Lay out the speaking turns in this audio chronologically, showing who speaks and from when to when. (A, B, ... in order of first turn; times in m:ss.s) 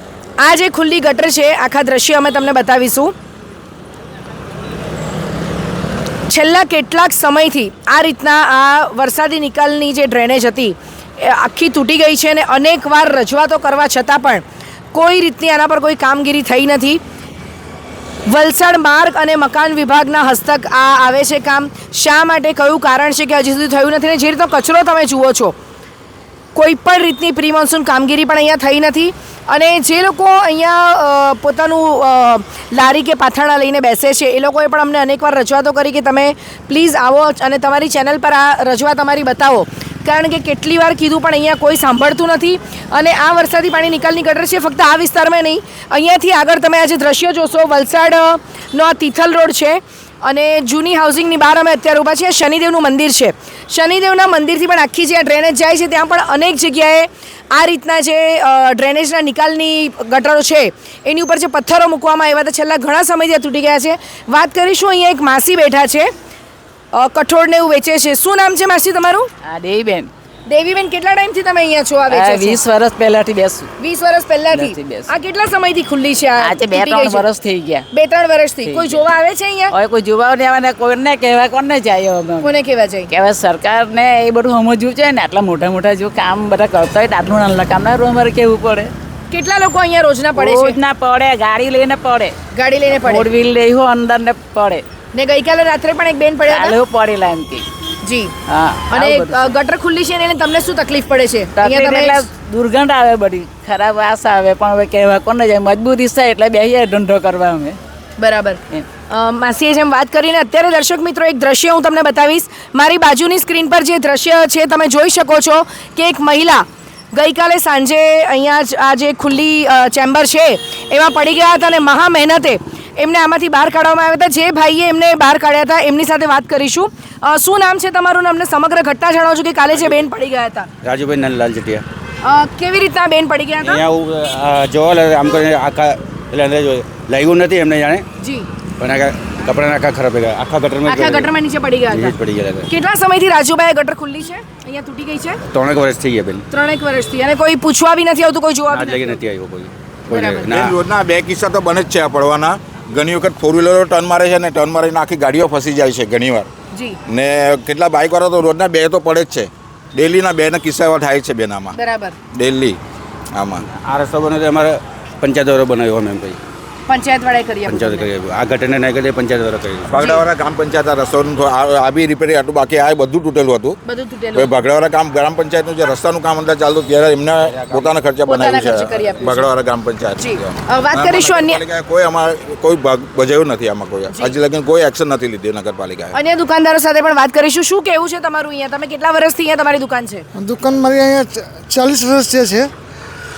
0:00.4-0:03.1 A
0:06.3-0:17.0 A
0:18.3-0:25.6 A
0:26.6-1:06.1 A
1:06.9-1:09.3 A
1:09.5-1:10.1 B
1:10.5-1:12.6 A
1:12.1-1:13.7 B
1:13.8-1:17.2 A
1:14.5-1:15.1 B
1:16.4-1:17.9 B
1:17.9-1:19.7 A
1:18.7-1:19.0 B
1:19.7-1:22.5 B
1:22.4-1:23.1 A
1:23.1-1:28.9 B
1:29.3-1:30.8 A
1:30.4-1:32.4 B
1:32.5-1:33.3 A
1:32.9-1:34.8 B
1:35.1-1:36.8 A
1:36.5-1:37.7 B
1:38.0-1:38.3 A
1:38.5-1:39.5 B
1:38.9-1:42.3 A
1:41.6-1:47.8 B
1:48.2-2:10.7 A
2:10.8-2:11.8 C
2:12.2-2:13.8 A
2:13.6-2:18.1 C
2:18.2-2:18.5 A
2:18.8-2:21.3 C
2:20.8-2:22.2 A
2:21.9-2:22.7 C
2:22.7-2:25.4 A
2:25.5-2:26.4 C
2:26.5-2:29.2 A
2:28.7-2:30.7 C
2:30.1-2:30.7 A
2:30.4-2:36.5 D
2:36.7-2:37.0 A
2:37.1-2:41.8 D
2:41.8-2:42.2 A
2:42.3-2:42.8 D
2:43.4-2:43.7 D
2:43.7-2:46.4 C
2:46.9-2:48.1 A
2:47.7-2:49.9 C
2:49.9-2:53.8 D
2:50.0-2:50.2 A
2:53.9-2:54.5 A
2:54.4-3:06.2 D
2:57.6-2:57.9 C
2:58.2-2:59.5 A
3:00.2-3:01.6 A
3:04.1-3:04.4 A
3:06.1-3:10.2 A
3:10.4-3:12.7 E